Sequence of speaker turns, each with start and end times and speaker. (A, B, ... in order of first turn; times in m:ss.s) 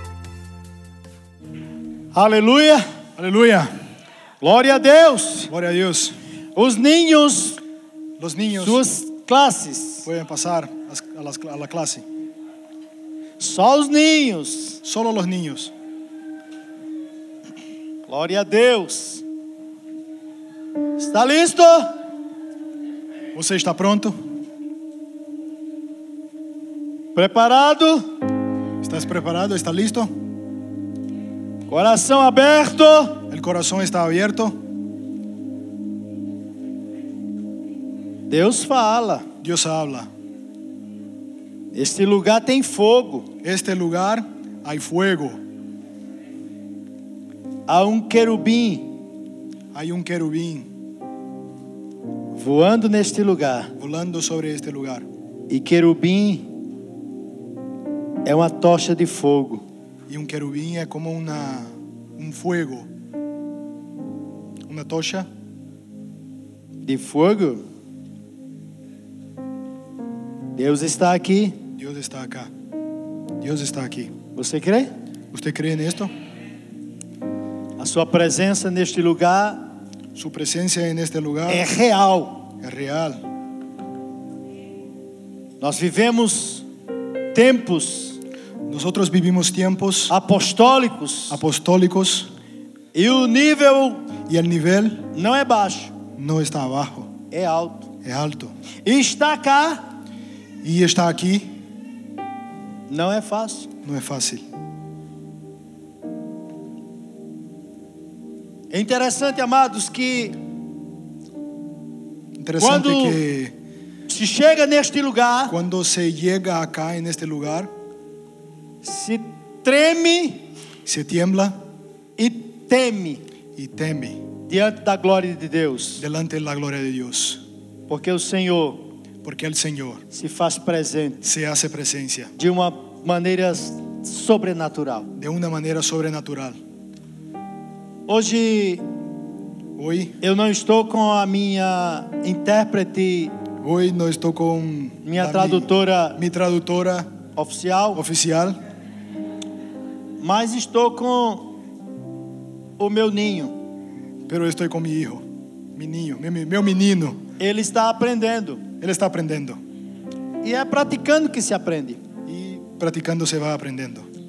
0:02.1-0:02.8 A
0:03.2-0:03.7 B
0:04.4-0:05.5 A
0:05.5-0:06.1 B
0:06.5-0:07.6 A
0:08.2-0:08.8 B
0:08.6-0:10.1 A
0:10.0-0:12.0 B
0:13.4-0:14.8 A
0:14.8-0:15.7 B
0:18.1-0:19.2 A
0:21.0-0:21.9 A
0:23.3-0:24.1 B
0:27.1-0:28.1 A
0:28.8-0:30.1 B
0:31.7-0:33.2 A
0:33.3-0:34.6 B
0:38.3-0:39.3 A
0:39.4-0:40.1 B
0:41.7-0:43.3 A
0:43.4-0:45.4 B
0:47.7-0:48.9 A
0:49.7-0:50.7 B
0:52.3-0:53.7 A
0:53.8-0:55.1 B
0:55.5-0:56.5 A
0:58.2-0:59.6 A
1:00.1-1:02.9 B
1:04.7-1:05.3 B
1:06.8-1:07.6 A
1:10.6-1:11.6 A
1:11.8-1:12.5 B
1:13.4-1:14.1 B
1:14.3-1:14.9 A
1:15.3-1:16.1 B
1:17.8-1:19.7 A
1:20.1-1:21.6 B
1:21.5-1:22.5 A
1:22.6-1:23.2 B
1:25.6-1:26.6 A
1:27.3-1:28.2 A
1:28.7-1:30.1 B
1:30.1-1:31.4 A
1:31.3-1:32.3 B
1:32.9-1:34.1 A
1:34.3-1:35.0 B
1:35.1-1:35.9 A
1:36.2-1:37.1 B
1:37.3-1:37.9 A
1:38.0-1:38.5 B
1:38.8-1:39.8 A
1:40.6-1:41.5 B
1:42.9-1:43.7 A
1:43.8-1:44.4 B
1:48.7-1:50.4 A
1:52.4-1:53.5 B
1:52.6-1:53.2 A
1:54.1-1:55.6 A
1:55.5-1:57.7 B
1:58.8-2:00.4 A
2:00.8-2:01.6 B
2:02.2-2:03.2 A
2:03.6-2:04.2 B
2:04.5-2:06.0 A
2:06.0-2:07.4 B
2:07.9-2:08.9 A
2:09.2-2:10.0 B
2:10.1-2:11.2 A
2:11.2-2:12.3 B
2:12.4-2:15.1 A
2:15.1-2:16.6 B
2:18.1-2:18.8 A
2:19.8-2:20.2 B
2:20.2-2:23.3 A
2:23.6-2:27.1 B
2:25.0-2:26.2 A
2:27.3-2:28.0 A
2:27.9-2:28.6 B
2:30.2-2:31.5 A
2:32.8-2:33.6 A
2:34.3-2:35.2 B
2:35.7-2:37.2 B
2:37.4-2:38.6 A
2:38.8-2:39.6 B
2:40.4-2:42.0 A
2:42.3-2:44.1 B